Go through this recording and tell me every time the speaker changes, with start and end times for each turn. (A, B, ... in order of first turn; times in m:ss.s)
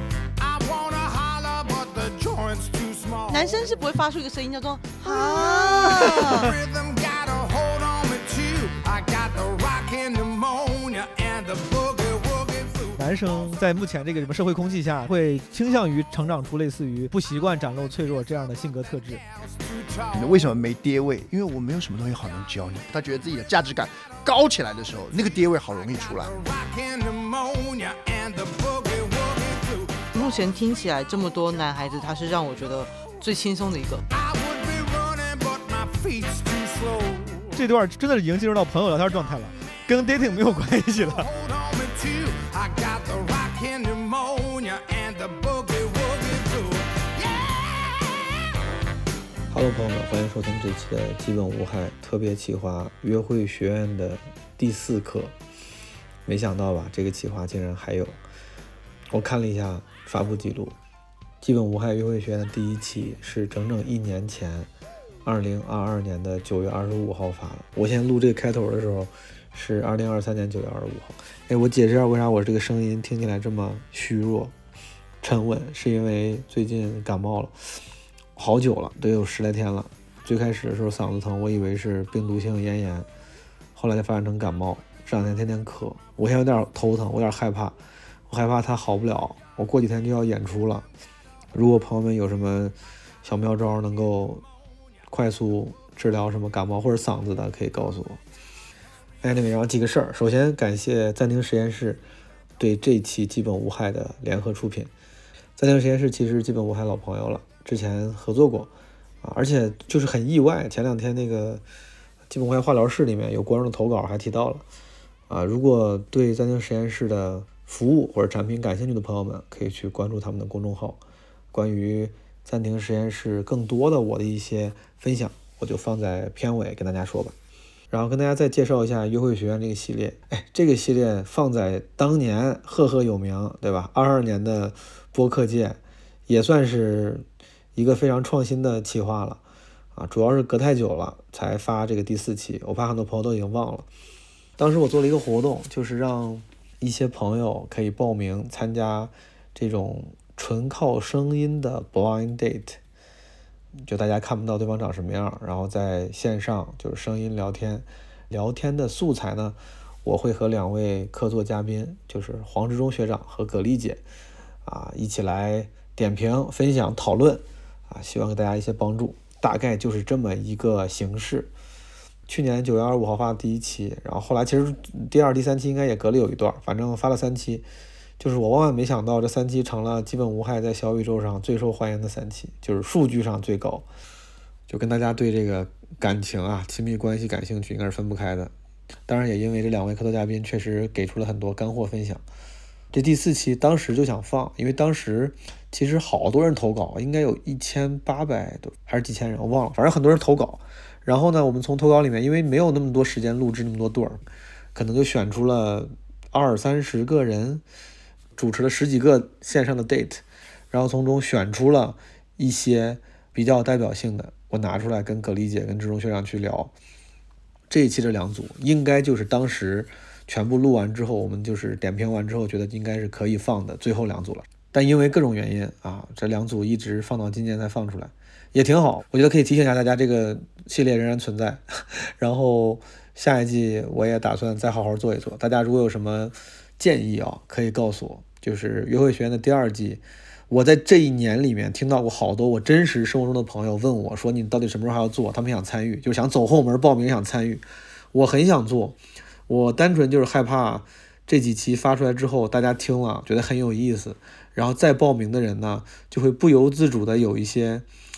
0:00.4-0:03.8 A
0:03.3-0:06.5 B
0:05.6-0:13.1 A
0:13.0-0:19.2 C
0:19.2-0:20.5 A
0:20.1-0:26.4 D
0:26.1-0:30.1 A
0:30.1-0:34.0 B
0:34.1-0:37.6 A
0:37.6-0:41.3 C
0:41.1-0:48.1 A
0:49.5-0:55.4 E
0:56.3-0:58.2 E
0:59.1-1:00.8 E
1:01.4-1:04.7 E
1:05.2-1:14.6 E
1:15.2-1:17.5 E
1:18.4-1:23.1 E
1:23.8-1:27.8 E
1:28.3-1:30.9 E
1:31.5-1:34.4 E
1:35.1-1:38.2 E
1:39.2-1:42.0 E
1:42.6-1:44.9 E
1:45.6-1:51.6 E
1:52.3-1:54.6 E
1:55.3-2:01.0 E
2:01.5-2:07.4 E
2:07.9-2:19.4 E
2:20.0-2:23.9 E
2:24.6-2:32.8 E
2:33.8-2:44.0 E
2:44.6-2:51.5 E
2:52.3-2:57.7 E
2:58.2-3:03.9 E
3:04.7-3:08.5 E
3:09.1-3:12.2 E
3:12.9-3:27.6 E
3:28.4-3:36.7 E
3:37.7-4:17.9 E